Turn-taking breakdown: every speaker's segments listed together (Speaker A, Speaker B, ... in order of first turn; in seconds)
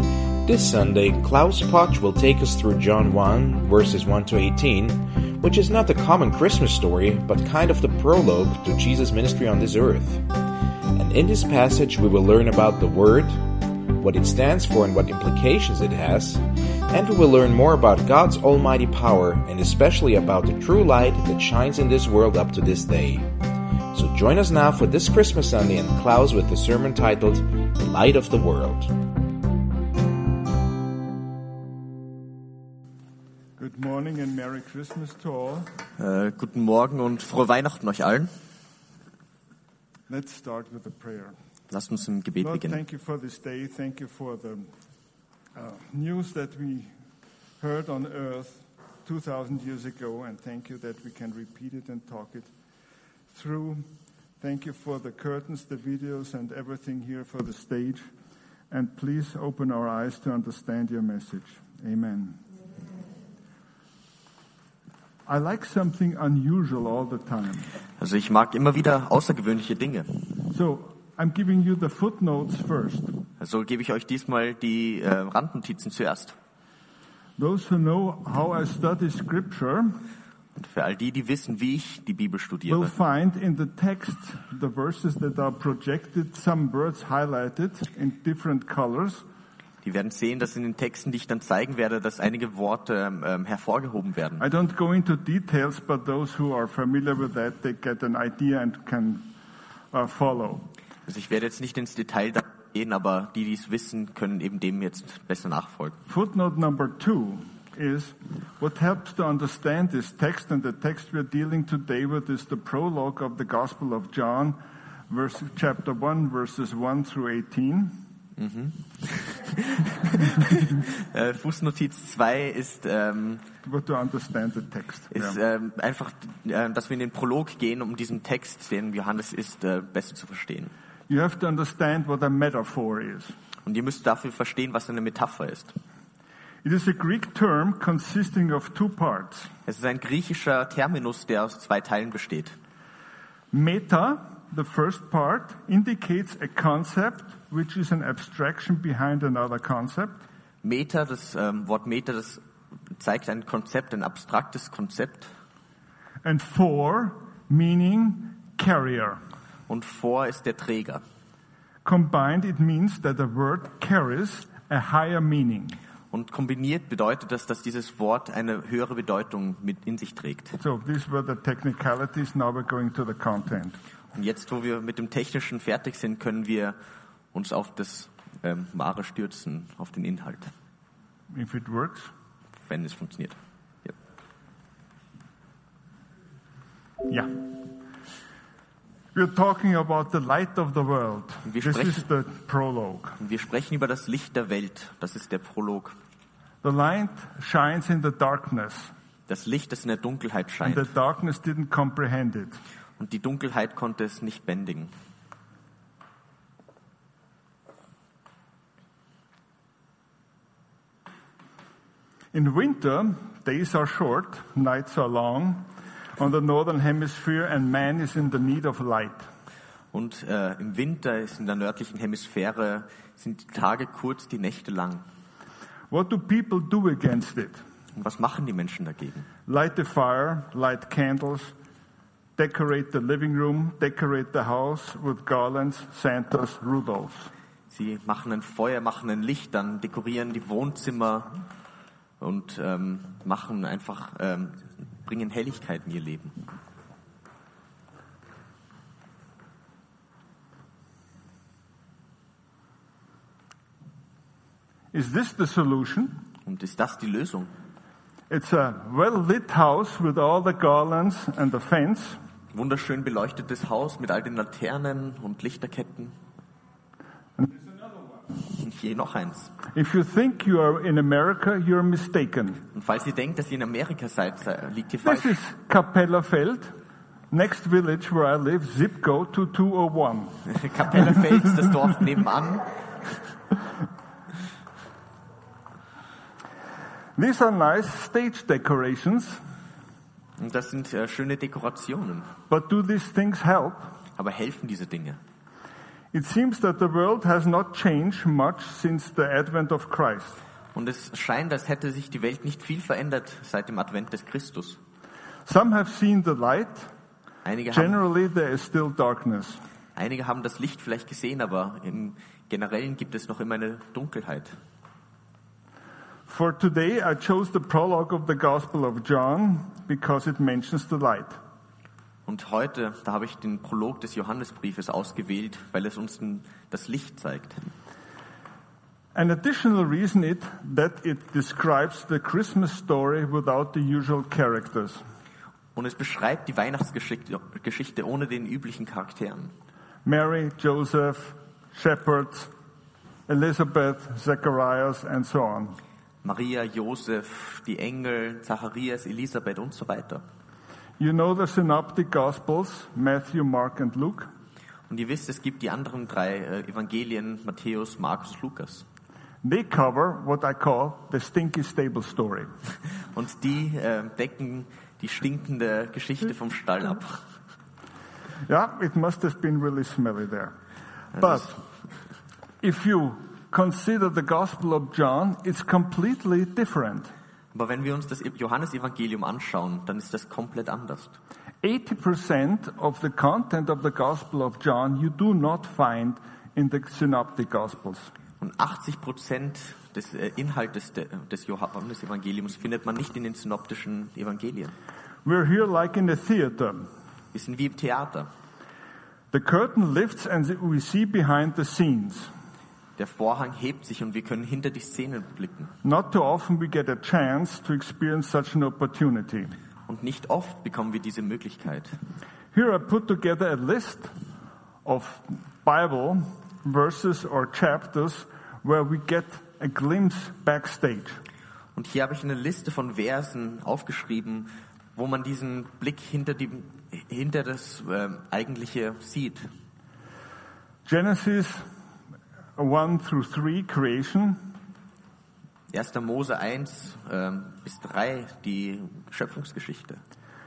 Speaker A: 0.4-10.2, 10.9-23.3, 23.9-28.9
Speaker B: 33.6-35.7, 40.1-41.3, 42.4-44.7, 45.5-46.9, 47.6-52.5, 53.3-53.9, 54.4-58.1, 58.7-62.4, 65.2-67.7, 70.5-73.1, 77.4-80.0, 82.7-89.2, 94.4-99.3, 99.9-100.7, 106.1-114.6, 115.1-118.0, 123.6-125.4, 131.1-133.3, 136.6-139.5, 143.5-150.2, 156.2-159.2, 161.8-165.8, 170.6-173.8, 181.3-182.1, 187.1-187.4, 189.1-193.2, 196.6-198.9, 200.6-202.6, 212.3-219.2, 225.9-227.6, 229.4-231.5, 232.4-237.3, 254.9-256.2, 258.3-262.2, 267.4-268.2, 269.7-272.6, 275.0-276.7, 277.3-280.4, 287.1-289.4, 292.5-293.9, 296.1-300.4, 305.4-306.9, 307.7-309.6, 316.3-321.4, 329.1-335.0, 340.0-342.5, 343.3-345.8, 351.0-354.3, 359.4-362.5, 368.5-370.5, 371.1-371.6, 372.6-377.1, 381.6-388.1, 395.2-396.9, 399.3-402.3, 405.8-409.5, 412.5-414.1, 414.8-421.2, 430.8-431.6, 432.6-434.5
Speaker C: 36.0-38.3, 41.7-42.8, 68.0-70.3, 73.4-76.3, 80.5-82.9, 89.8-94.5, 101.0-106.0, 118.4-123.5, 125.1-130.7, 133.6-135.7, 139.7-142.6, 150.6-152.4, 152.9-155.3, 159.7-161.0, 166.1-170.6, 174.1-176.8, 177.3-180.5, 182.7-183.9, 191.4-192.1, 193.2-195.9, 199.3-200.9, 203.0-204.9, 219.9-225.0, 227.9-229.3, 237.7-241.4, 242.2-246.4, 256.4-257.5, 262.5-266.1, 268.4-269.5, 272.7-275.4, 280.4-282.8, 290.4-292.3, 294.2-295.2, 300.7-304.8, 307.4-308.0, 309.9-314.5, 322.3-327.6, 335.7-339.5, 346.2-350.2, 354.9-358.8, 363.1-367.2, 377.5-381.2, 388.4-394.7, 397.3-398.3, 403.0-405.7, 409.9-411.9, 421.8-429.5, 435.7-440.0